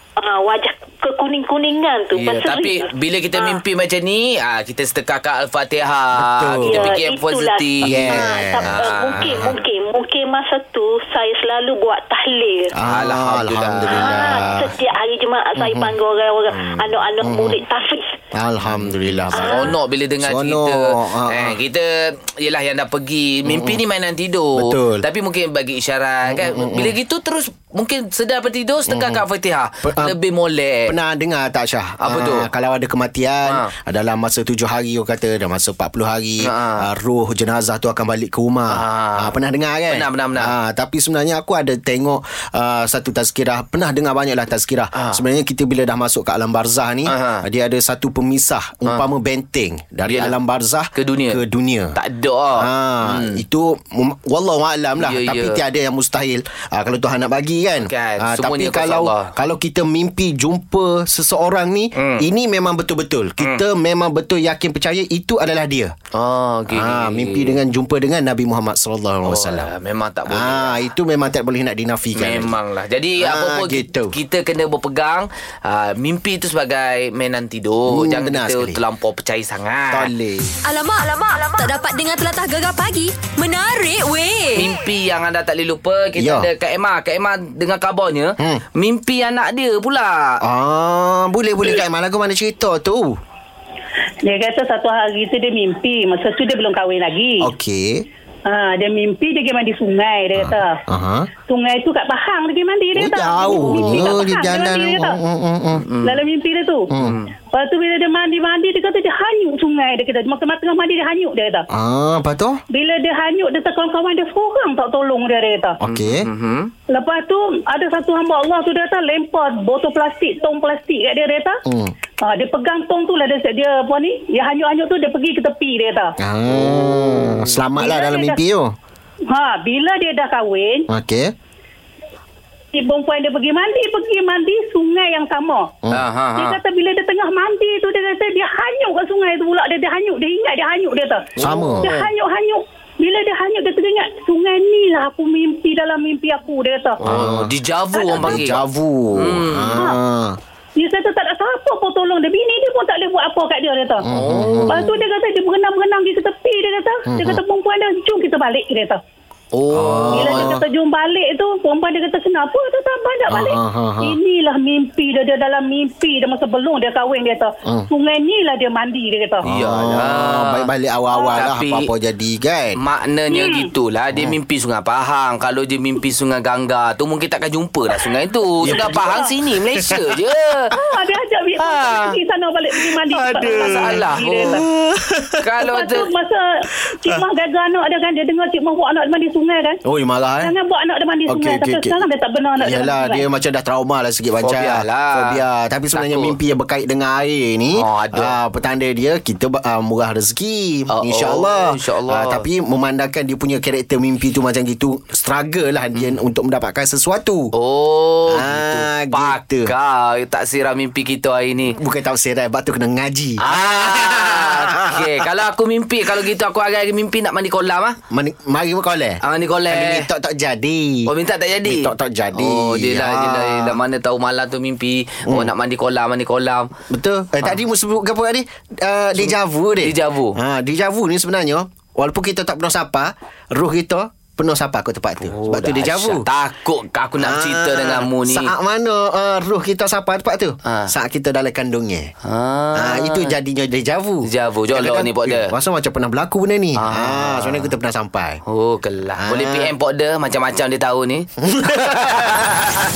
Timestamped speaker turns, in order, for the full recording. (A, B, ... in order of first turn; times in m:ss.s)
0:00.2-0:03.6 A
0:02.1-0:09.5 B
0:06.2-0:06.9 C
0:06.6-0:12.7 A
0:07.8-0:09.6 C
0:12.8-0:14.7 C
0:12.9-0:14.5 B
0:13.9-0:18.1 A
0:15.6-0:15.9 C
0:16.5-0:17.6 C
0:18.4-0:21.6 C
0:18.7-0:30.9 B
0:19.3-0:19.7 A
0:23.5-0:23.8 C
0:24.6-0:25.0 C
0:26.3-0:27.0 C
0:28.9-0:29.2 C
0:29.8-0:30.2 C
0:30.8-0:52.0 C
0:32.0-0:32.5 B
0:36.4-0:36.8 B
0:38.7-0:39.3 B
0:39.9-0:40.5 B
0:47.1-0:47.4 B
0:50.1-0:50.4 B
0:50.9-0:51.4 B
0:51.9-0:53.4 B
0:52.6-1:05.9 C
0:55.0-0:55.6 B
0:57.8-0:59.3 B
1:02.0-1:02.2 B
1:06.1-1:07.6 B
1:06.7-1:09.7 C
1:09.2-1:10.8 B
1:10.3-1:12.5 C
1:12.1-1:20.1 B
1:13.2-1:14.1 C
1:17.9-1:18.8 C
1:19.9-1:20.5 C
1:20.6-1:24.7 D
1:24.6-1:30.3 B
1:26.2-1:26.5 C
1:30.4-1:33.2 C
1:34.2-1:37.5 E
1:37.4-1:38.0 C
1:38.5-1:40.8 E
1:40.3-1:41.3 C
1:41.5-1:45.2 E
1:42.9-1:45.8 C
1:45.8-1:46.2 B
1:46.0-1:46.9 E
1:46.9-1:47.2 C
1:47.0-1:47.3 B
1:47.5-1:51.6 E
1:51.7-1:52.6 C
1:52.7-1:55.8 E
1:55.8-1:56.3 C
1:55.9-1:56.7 B
1:56.9-2:01.6 E
2:01.6-2:01.9 C
2:02.2-2:06.1 E
2:06.2-2:08.7 C
2:06.5-2:07.6 B
2:07.8-2:08.4 E
2:09.3-2:10.8 E
2:10.9-2:11.3 C
2:12.7-2:15.7 E
2:15.9-2:16.6 B
2:16.3-2:27.0 E
2:21.4-2:21.9 C
2:21.4-2:22.1 B
2:27.0-2:27.5 C
2:27.0-2:28.6 B
2:27.9-2:28.4 E
2:28.0-2:30.4 C
2:29.2-2:29.8 B
2:30.8-2:34.0 E
2:34.0-2:34.9 C
2:34.1-2:34.9 B
2:34.6-2:39.0 E
2:37.0-2:37.4 C
2:39.5-2:40.5 B
2:39.7-2:40.6 C
2:40.1-2:49.4 E
2:43.3-2:44.2 C
2:49.4-2:52.8 C
2:49.4-2:50.7 B
2:51.3-2:51.9 B
2:52.8-3:00.7 B
2:53.3-2:53.7 E
2:58.6-2:59.1 C
2:58.6-2:59.3 E
3:00.8-3:04.6 E
3:01.6-3:02.2 B
3:03.0-3:05.4 C
3:03.5-3:04.4 B
3:05.4-3:06.1 B
3:05.6-3:06.5 E
3:07.0-3:09.8 E
3:09.8-3:10.5 C
3:10.4-3:13.2 E
3:11.3-3:12.0 C
3:12.6-3:27.5 C
3:14.4-3:15.4 B
3:15.9-3:16.4 B
3:17.7-3:18.4 B
3:20.9-3:22.5 B
3:25.9-3:26.2 B
3:27.5-3:31.8 B
3:28.3-3:29.7 C
3:31.7-3:35.1 C
3:33.4-3:38.0 B
3:38.1-3:41.1 C
3:39.2-3:40.1 B
3:41.1-3:46.7 B
3:41.6-3:43.8 C
3:45.3-3:45.5 C
3:46.9-3:56.2 C
3:49.2-3:50.4 B
3:55.2-3:58.5 B
3:57.2-4:02.1 C
4:00.7-4:00.9 B
4:02.2-4:03.3 B
4:02.7-4:08.4 C
4:04.3-4:05.5 B
4:06.8-4:07.7 B
4:08.5-4:12.5 B
4:09.2-4:09.7 C
4:11.4-4:12.6 C